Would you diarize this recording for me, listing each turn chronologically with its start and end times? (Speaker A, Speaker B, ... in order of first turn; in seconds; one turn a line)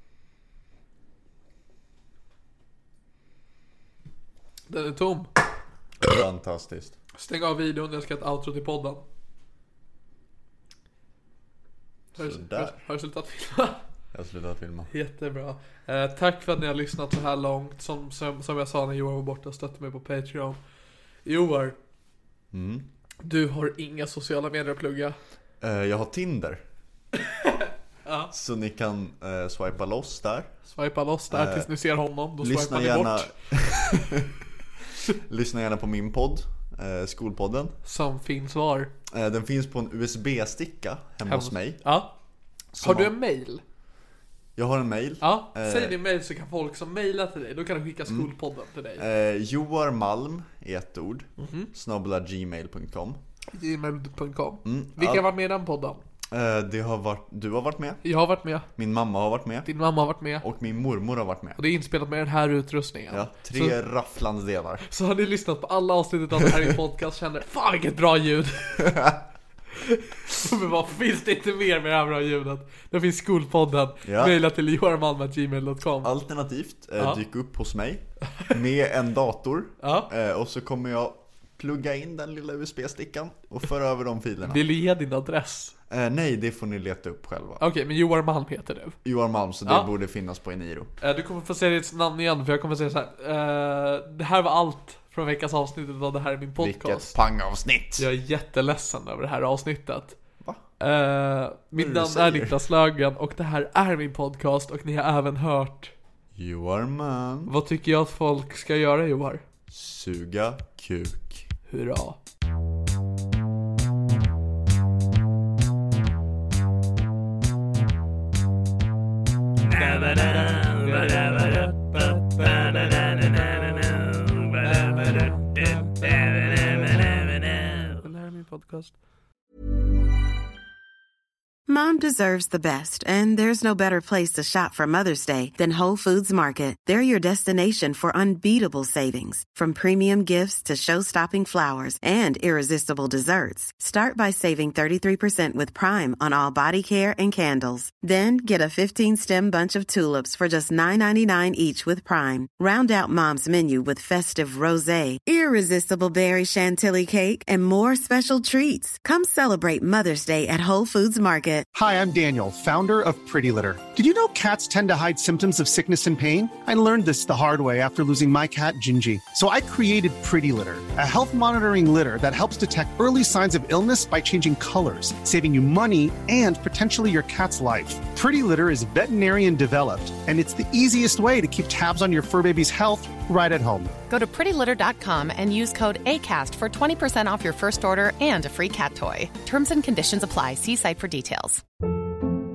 Speaker A: 4.7-5.3
Speaker B: 6.0-7.0
Speaker A: 7.2-9.0
Speaker B: 12.1-12.8
Speaker A: 12.1-13.8
Speaker B: 14.1-14.9
Speaker A: 14.9-20.6
Speaker A: 21.2-21.8
Speaker B: 22.5-22.9
Speaker A: 23.2-25.2
Speaker B: 25.6-26.6
Speaker A: 27.5-28.3
Speaker B: 28.3-30.5
Speaker A: 30.7-33.3
Speaker B: 31.3-31.7
Speaker B: 32.4-34.3
Speaker B: 35.1-37.8
Speaker A: 37.8-38.9
Speaker B: 39.1-41.8
Speaker A: 41.2-42.1
Speaker B: 42.7-43.1
Speaker A: 42.8-43.6
Speaker B: 44.5-46.0
Speaker A: 45.2-49.0
Speaker B: 48.1-48.3
Speaker B: 49.0-53.2
Speaker A: 51.4-51.7
Speaker A: 53.5-56.0
Speaker B: 54.6-55.2
Speaker B: 56.3-58.0
Speaker A: 58.0-58.7
Speaker B: 58.8-59.7
Speaker A: 59.6-60.4
Speaker B: 60.4-61.6
Speaker A: 61.6-63.8
Speaker B: 63.1-64.9
Speaker A: 64.9-69.0
Speaker B: 68.8-69.2
Speaker A: 69.8-76.1
Speaker B: 74.0-74.4
Speaker B: 76.0-84.6
Speaker A: 79.8-80.1
Speaker A: 84.4-85.7
Speaker B: 85.9-87.6
Speaker A: 87.6-89.0
Speaker B: 89.0-90.9
Speaker A: 91.0-97.2
Speaker B: 96.6-98.0
Speaker A: 98.0-100.2
Speaker A: 100.8-105.9
Speaker B: 101.7-102.6
Speaker B: 106.3-107.5
Speaker A: 107.5-109.4
Speaker B: 109.7-111.5
Speaker A: 111.7-112.2
Speaker A: 119.7-128.9
Speaker C: 131.7-161.7
Speaker D: 161.7-184.0
Speaker E: 184.0-191.6